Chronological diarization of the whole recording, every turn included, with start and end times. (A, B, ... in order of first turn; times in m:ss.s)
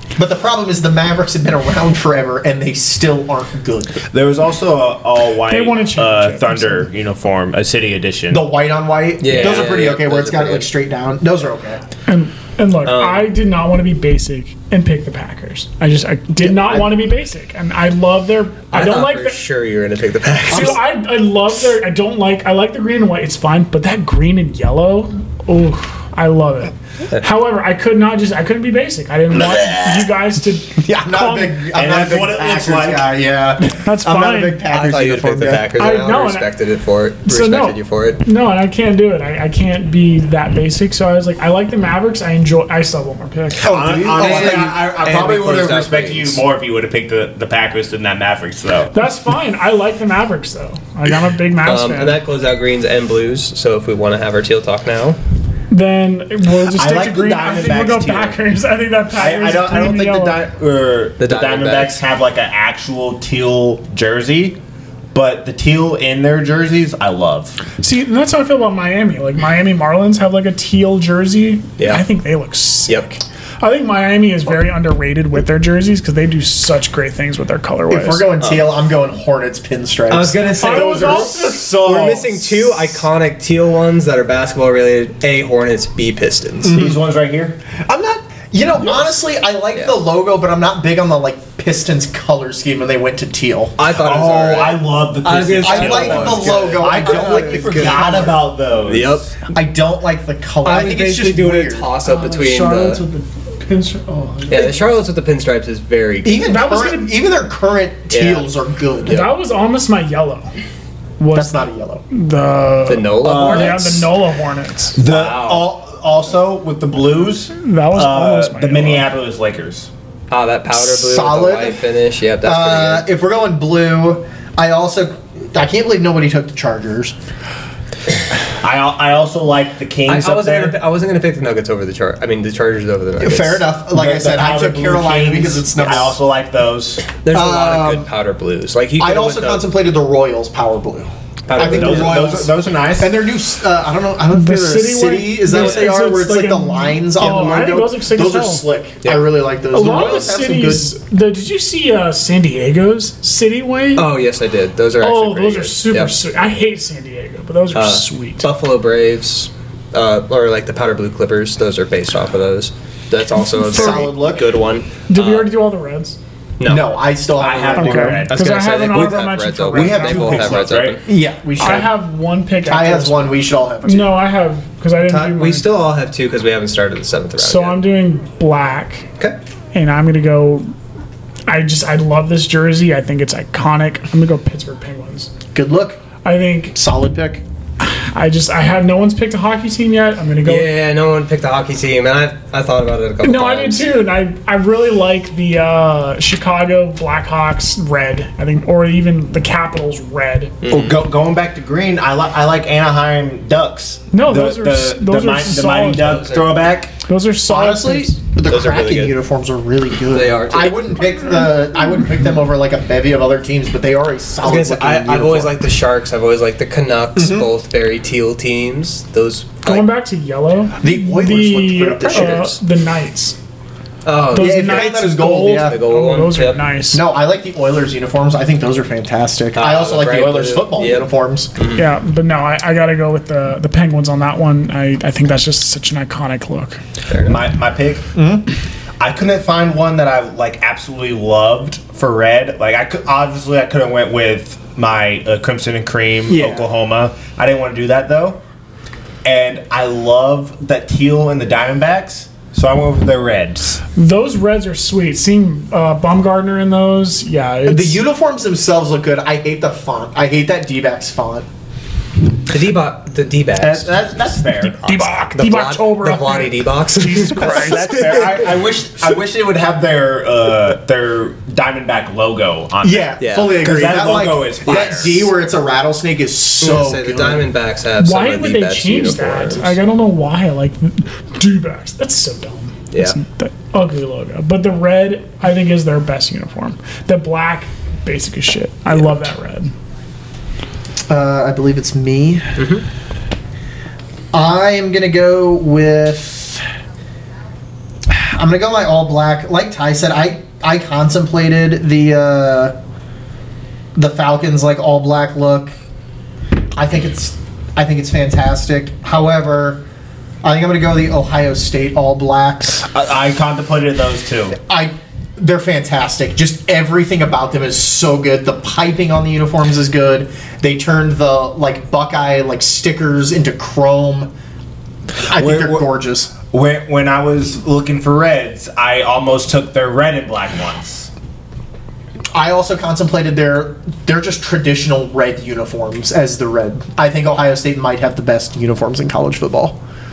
0:00.2-0:04.0 A
0:04.1-0:08.5 B
0:05.5-0:06.9 C
0:08.3-0:11.8 A
0:09.2-0:10.7 D
0:12.1-0:19.4 C
0:12.8-0:13.3 D
0:16.4-0:17.0 A
0:18.7-0:20.8 D
0:20.5-0:31.6 C
0:20.5-0:20.8 A
0:29.5-0:30.0 B
0:30.8-0:35.7 A
0:31.7-0:33.1 B
0:33.8-0:34.6 C
0:34.7-0:38.2 D
0:35.7-0:36.5 C
0:37.2-0:43.6 C
0:43.6-0:44.8 A
0:43.6-0:48.9 B
0:44.1-0:46.4 D
0:48.9-0:52.2 C
0:51.6-0:55.2 D
0:55.7-1:00.4 C
0:56.7-0:58.4 B
0:59.1-1:04.6 B
1:01.2-1:02.0 D
1:05.1-1:07.6 B
1:07.8-1:18.3 C
1:11.8-1:12.0 D
1:17.9-1:21.3 A
1:18.4-1:18.7 D
1:20.1-1:26.7 D
1:20.6-1:22.1 C
1:21.5-1:22.6 B
1:26.6-1:27.0 A
1:26.7-1:27.6 B
1:27.8-1:33.7 A
1:33.8-1:39.3 D
1:33.9-1:39.3 B
1:35.6-1:38.4 A
1:39.5-1:41.9 A
1:40.6-1:43.0 D
1:42.0-1:44.8 C
1:44.5-1:46.6 D
1:46.2-1:49.2 A
1:46.5-1:47.1 C
1:48.1-1:48.5 D
1:49.0-1:49.3 D
1:49.0-1:50.5 C
1:51.2-1:55.0 C
1:51.3-1:52.0 A
1:52.9-1:54.0 D
1:53.2-1:54.0 B
1:54.9-1:59.9 B
1:55.0-1:55.7 D
1:57.6-1:59.1 C
2:00.3-2:03.0 D
2:00.7-2:01.8 A
2:02.4-2:07.1 A
2:08.6-2:10.8 B
2:10.0-2:13.6 D
2:13.2-2:16.2 A
2:13.9-2:17.0 B
2:17.2-2:19.7 D
2:17.3-2:18.1 A
2:19.0-2:30.9 A
2:21.5-2:22.3 D
2:21.6-2:23.2 B
2:24.3-2:28.6 C
2:25.5-2:25.9 D
2:29.0-2:29.3 D
2:29.7-2:34.1 C
2:34.0-2:36.1 D
2:35.0-2:38.5 C
2:37.7-2:45.5 D
2:43.6-2:44.1 C
2:43.7-2:44.5 A
2:45.1-2:46.2 C
2:46.6-2:46.9 D
2:46.6-2:48.3 A
2:47.4-2:51.0 B
2:47.7-2:50.5 C
2:48.3-2:51.0 D
2:50.4-2:52.0 A
2:51.6-2:55.7 C
2:52.6-2:54.2 A
2:55.0-2:57.8 D
2:57.4-2:59.1 C
2:59.7-3:00.7 C
3:01.5-3:05.3 C
3:05.5-3:06.0 A
3:06.2-3:06.7 C
3:06.7-3:07.4 A
3:07.8-3:10.7 C
3:10.4-3:13.9 D
3:13.2-3:20.5 C
3:20.6-3:21.0 D
3:20.7-3:26.9 B
3:24.1-3:26.3 C
3:25.9-3:26.7 D
3:27.0-3:28.2 C
3:27.5-3:35.5 A
3:28.4-3:29.1 D
3:30.0-3:30.8 D
3:34.4-3:39.9 D
3:37.2-3:37.5 A
3:39.6-3:43.4 C
3:40.8-3:42.6 A
3:42.1-3:42.4 D
3:44.0-3:45.0 D
3:44.3-3:47.0 C
3:44.3-3:45.8 A
3:45.6-3:46.6 D
3:46.9-3:51.5 A
3:49.5-3:51.8 D
3:51.8-3:56.8 C
3:57.1-3:57.4 D
3:57.2-3:58.1 B
3:58.1-3:58.4 A
3:59.0-4:08.4 B
4:06.3-4:06.7 A
4:09.2-4:13.8 B
4:13.9-4:18.0 C
4:17.6-4:21.5 A
4:22.5-4:24.0 D
4:23.6-4:24.8 B
4:24.7-4:28.0 C
4:24.8-4:28.5 D
4:27.4-4:35.3 B
4:32.8-4:37.5 A
4:33.2-4:35.1 D
4:36.6-4:39.8 D
4:38.0-4:49.7 C
4:42.9-4:43.2 D
4:51.1-4:52.5 A
4:52.6-4:52.8 D
4:54.3-4:56.6 A
4:58.1-5:02.7 A
5:03.9-5:05.7 A
5:06.7-5:09.8 A
5:10.4-5:12.8 A
5:12.9-5:14.6 B
5:14.7-5:24.3 A
5:25.2-5:26.3 A
5:25.3-5:25.8 B
5:26.4-5:31.1 B
5:32.3-5:39.8 A